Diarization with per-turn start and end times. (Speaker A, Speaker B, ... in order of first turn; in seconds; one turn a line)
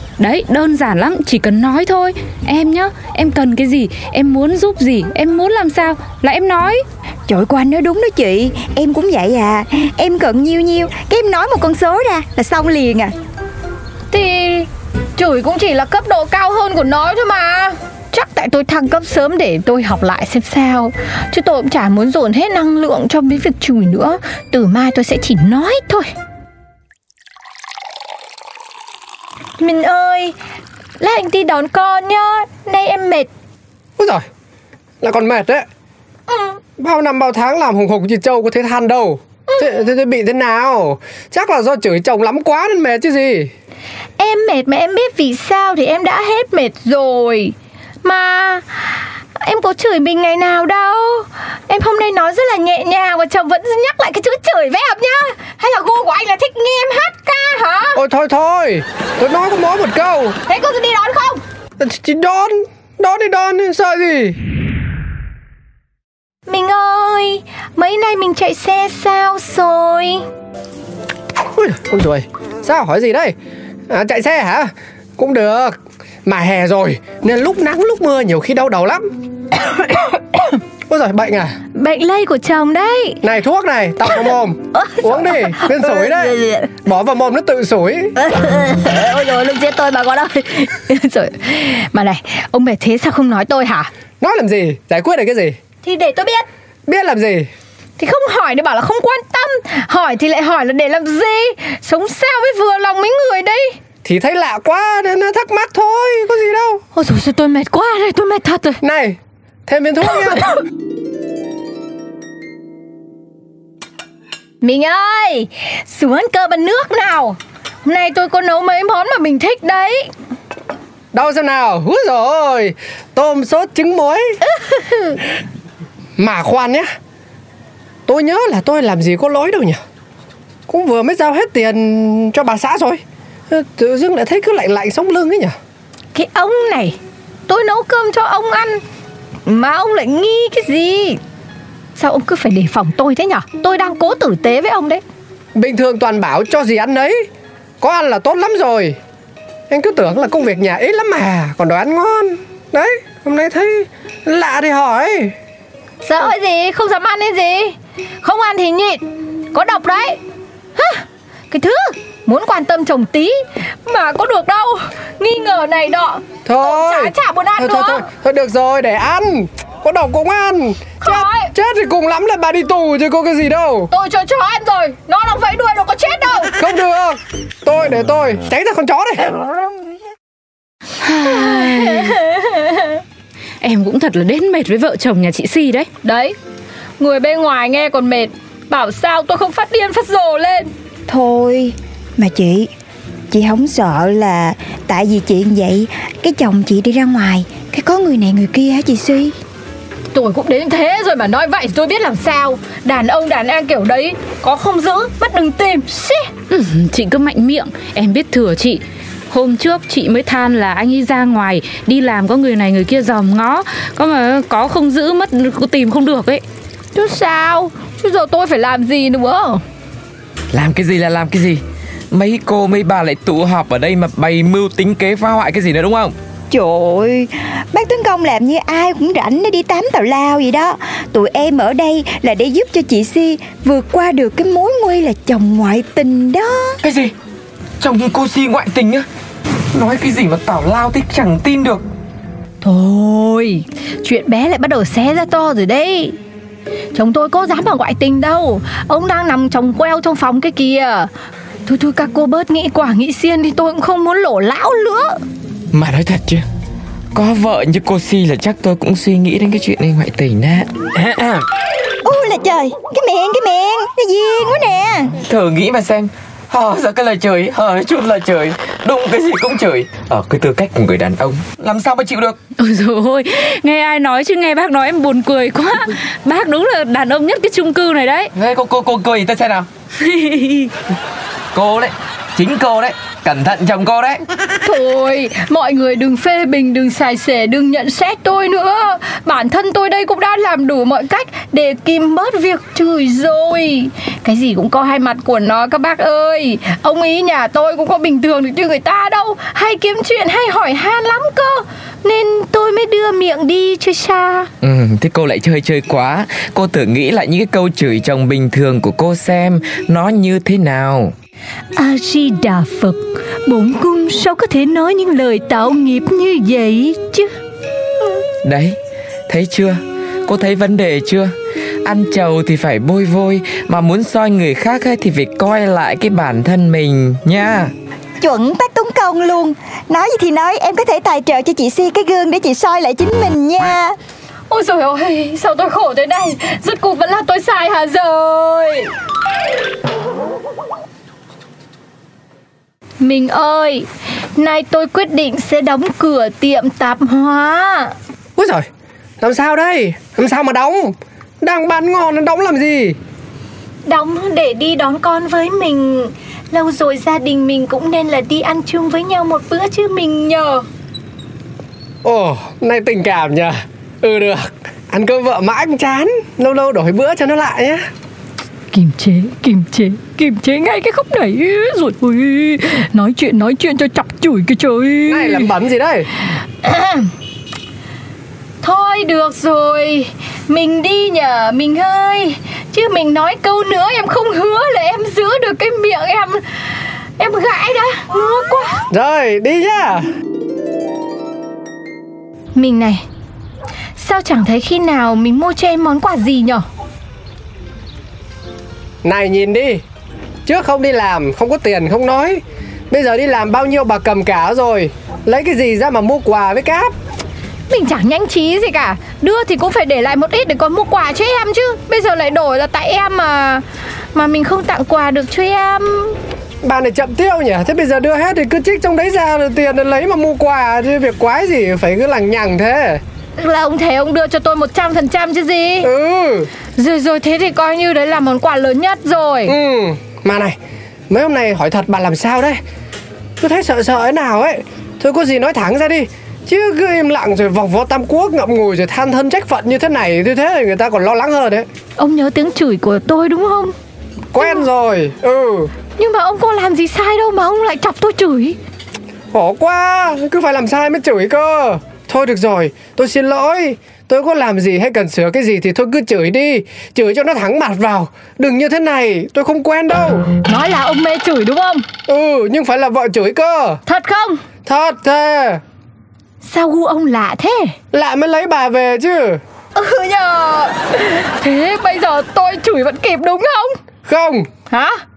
Speaker A: 0.2-6.8
Speaker B: 7.3-13.1
Speaker C: 14.1-26.1
Speaker C: 29.6-30.4
Speaker C: 31.0-33.3
Speaker D: 34.0-34.2
Speaker D: 35.0-35.7
Speaker C: 36.3-36.6
Speaker D: 36.8-43.5
Speaker C: 44.2-58.0
Speaker D: 58.0-60.4
Speaker C: 60.5-61.4
Speaker D: 61.8-64.4
Speaker C: 66.5-70.2
Speaker D: 71.5-73.3
Speaker D: 73.9-79.0
Speaker D: 80.9-81.5
Speaker C: 81.8-83.2
Speaker D: 83.2-88.1
Speaker B: 85.8-86.7
Speaker B: 88.2-90.3
Speaker C: 89.9-93.9
Speaker D: 94.2-95.6
Speaker C: 95.8-96.5
Speaker D: 96.9-97.5
Speaker C: 98.0-103.8
Speaker D: 104.0-106.8
Speaker C: 106.9-108.8
Speaker D: 108.8-110.6
Speaker C: 114.6-120.1
Speaker D: 121.1-124.4
Speaker D: 126.2-126.9
Speaker D: 128.1-129.8
Speaker D: 130.7-135.6
Speaker C: 136.1-138.8
Speaker C: 139.5-141.2
Speaker C: 142.0-145.0
Speaker D: 145.6-147.3
Speaker D: 147.8-149.0
Speaker D: 149.7-155.3
Speaker C: 156.0-160.2
Speaker C: 160.8-168.1
Speaker D: 166.4-173.9
Speaker C: 171.0-171.5
Speaker C: 173.9-176.5
Speaker D: 176.6-179.4
Speaker A: 181.0-182.2
Speaker C: 181.3-182.9
Speaker A: 183.6-185.9
Speaker C: 186.0-186.3
Speaker C: 187.0-190.7
Speaker B: 191.1-192.7
Speaker B: 193.3-199.3
Speaker C: 200.1-206.3
Speaker A: 206.5-216.4
Speaker C: 216.9-219.6
Speaker E: 220.5-226.2
Speaker B: 226.5-236.8
Speaker E: 236.8-237.1
Speaker E: 237.8-239.1
Speaker E: 239.7-241.8
Speaker C: 242.6-246.2
Speaker C: 246.9-251.1
Speaker C: 251.7-255.2
Speaker E: 255.7-256.4
Speaker E: 257.1-261.4
Speaker B: 262.0-265.2
Speaker E: 265.2-272.4
Speaker A: 272.6-278.3
Speaker E: 278.3-279.7
Speaker A: 280.2-280.6
Speaker E: 281.5-284.2
Speaker C: 284.6-304.5
Speaker E: 304.6-311.1
Speaker C: 311.8-317.3
Speaker E: 318.4-318.8
Speaker E: 319.3-327.7
Speaker B: 328.2-334.0
Speaker C: 334.5-338.9
Speaker C: 343.0-347.9
Speaker D: 348.4-348.7
Speaker D: 349.2-353.0
Speaker C: 353.9-360.7
Speaker D: 362.0-367.9
Speaker C: 368.7-375.5
Speaker D: 375.1-376.1
Speaker C: 376.6-377.1
Speaker C: 378.6-388.8
Speaker D: 388.9-390.1
Speaker C: 392.6-393.0
Speaker C: 394.0-396.6
Speaker D: 399.0-399.8
Speaker D: 400.5-406.9
Speaker C: 407.7-416.2
Speaker D: 416.6-423.0
Speaker C: 423.4-425.9
Speaker D: 425.8-426.5
Speaker C: 426.8-429.5
Speaker D: 429.5-430.6
Speaker D: 431.1-432.6
Speaker D: 433.4-441.7
Speaker C: 442.0-443.8
Speaker D: 444.3-445.7
Speaker C: 446.0-448.6
Speaker D: 449.3-460.2
Speaker C: 460.4-461.9
Speaker D: 462.1-463.8
Speaker C: 463.9-464.4
Speaker D: 464.6-465.6
Speaker C: 466.4-467.8
Speaker D: 467.9-469.4
Speaker C: 469.8-473.8
Speaker D: 474.1-474.5
Speaker C: 474.7-475.0